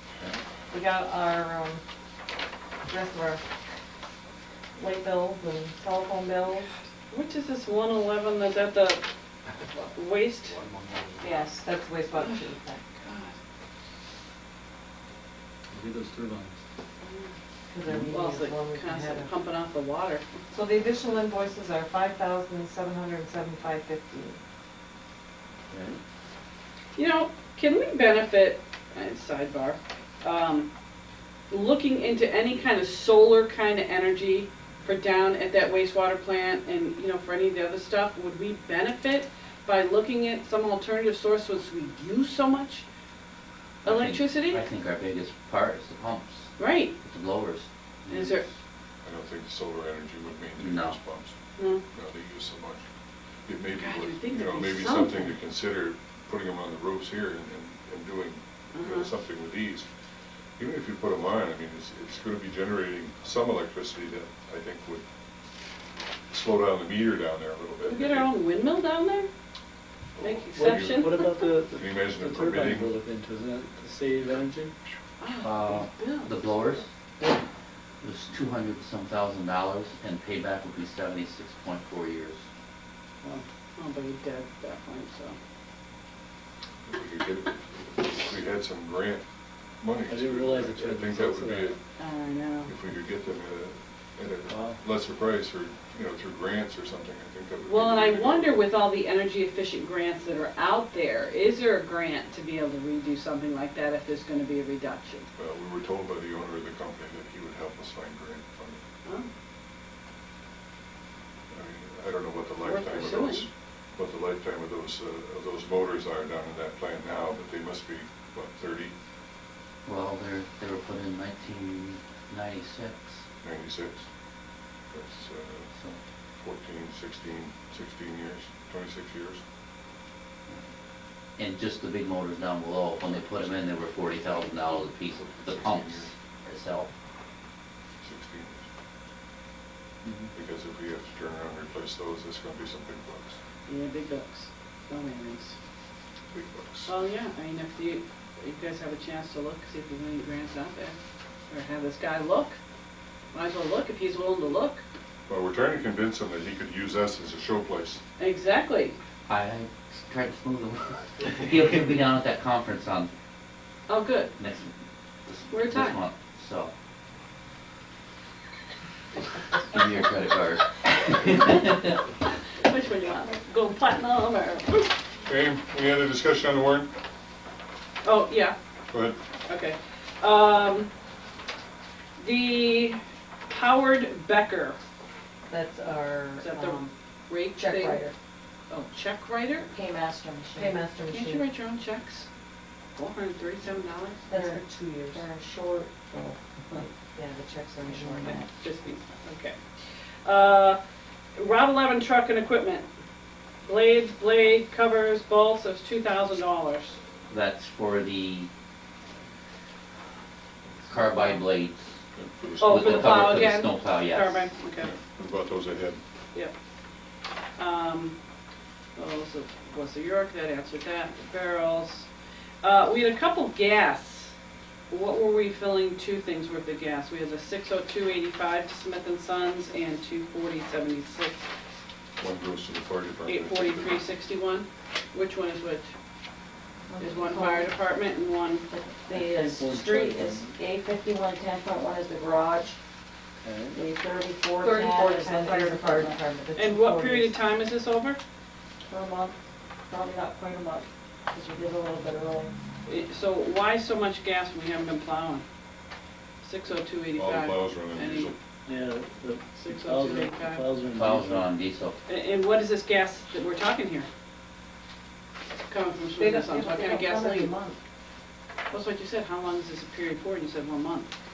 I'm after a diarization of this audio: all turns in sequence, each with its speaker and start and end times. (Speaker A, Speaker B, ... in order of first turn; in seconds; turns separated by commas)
Speaker A: 0.7-1.8, Speaker A: 2.9-3.4, Speaker A: 4.8-6.7, Speaker B: 7.1-9.0, Speaker B: 9.6-10.6, Speaker C: 10.5-11.2, Speaker D: 11.2-11.6, Speaker A: 11.6-12.8, Speaker B: 12.1-13.3, Speaker C: 15.7-16.6, Speaker B: 17.0-17.3, Speaker A: 17.7-19.3, Speaker B: 18.1-20.3, Speaker A: 20.5-24.4, Speaker C: 25.7-26.0, Speaker B: 26.9-30.7, Speaker B: 31.5-42.8, Speaker E: 43.8-48.5, Speaker B: 43.8-44.6, Speaker B: 46.6-46.9, Speaker B: 48.1-48.4, Speaker F: 49.0-51.4, Speaker E: 50.6-51.0, Speaker B: 51.6-51.8, Speaker F: 51.9-52.8, Speaker F: 53.5-59.9, Speaker B: 53.8-55.4, Speaker B: 58.7-59.1, Speaker F: 60.6-65.0, Speaker F: 66.3-68.3, Speaker B: 67.8-69.3, Speaker B: 70.2-71.4, Speaker F: 70.2-71.1, Speaker C: 70.5-74.7, Speaker F: 71.7-73.0, Speaker B: 75.2-76.5, Speaker E: 75.4-76.9, Speaker E: 78.0-82.4, Speaker B: 83.2-85.3, Speaker F: 86.8-89.2, Speaker F: 89.8-91.8, Speaker C: 90.1-91.7, Speaker B: 92.0-92.7, Speaker F: 92.7-98.7, Speaker C: 94.5-94.8, Speaker B: 97.6-105.3, Speaker F: 105.3-108.8, Speaker F: 111.5-118.9, Speaker B: 112.6-113.5, Speaker E: 119.8-123.2, Speaker F: 123.4-124.1, Speaker F: 124.9-125.7, Speaker E: 125.7-126.0, Speaker F: 126.4-129.4, Speaker E: 131.4-136.9, Speaker F: 135.4-136.1, Speaker F: 138.0-138.7, Speaker F: 140.3-143.4, Speaker B: 143.7-145.6, Speaker F: 146.3-146.9, Speaker B: 146.9-150.9, Speaker B: 151.5-152.6, Speaker B: 153.3-154.8, Speaker F: 155.3-158.0, Speaker B: 158.2-159.0, Speaker E: 159.3-163.1, Speaker B: 163.9-164.3, Speaker E: 164.4-164.7, Speaker E: 165.2-166.7, Speaker B: 165.5-166.0, Speaker E: 169.7-171.9, Speaker B: 172.6-174.9, Speaker F: 175.2-176.9, Speaker B: 178.0-178.5, Speaker F: 178.9-179.2, Speaker B: 179.5-180.9, Speaker B: 182.2-183.0, Speaker B: 183.5-184.8, Speaker A: 185.5-186.9, Speaker B: 186.4-188.0, Speaker D: 187.6-188.1, Speaker B: 188.7-189.7, Speaker D: 189.7-190.8, Speaker A: 190.6-191.4, Speaker B: 191.1-192.3, Speaker B: 192.9-194.6, Speaker A: 194.3-195.2, Speaker D: 194.3-194.6, Speaker D: 195.1-196.9, Speaker A: 197.0-198.4, Speaker D: 197.8-198.5, Speaker B: 198.2-199.6, Speaker B: 200.2-200.8, Speaker B: 201.3-202.9, Speaker B: 203.6-207.0, Speaker E: 207.3-208.5, Speaker E: 210.9-212.0, Speaker F: 212.1-213.6, Speaker B: 212.6-214.9, Speaker E: 212.6-214.5, Speaker F: 214.8-216.0, Speaker B: 217.6-218.2, Speaker B: 218.9-222.1, Speaker B: 222.6-224.3, Speaker B: 224.9-231.5, Speaker F: 232.2-234.0, Speaker B: 233.3-235.9, Speaker D: 236.9-237.7, Speaker B: 237.0-238.6, Speaker D: 238.7-242.8, Speaker C: 239.1-240.5, Speaker C: 243.4-243.8, Speaker D: 243.7-246.3, Speaker A: 244.6-247.3, Speaker B: 246.6-248.2, Speaker D: 248.8-252.5, Speaker B: 252.8-255.4, Speaker B: 256.4-258.3, Speaker F: 257.1-258.4, Speaker C: 258.7-261.4, Speaker B: 259.5-260.7, Speaker E: 260.9-262.0, Speaker B: 262.1-264.1, Speaker B: 265.7-267.5, Speaker A: 266.2-267.8, Speaker B: 268.7-271.1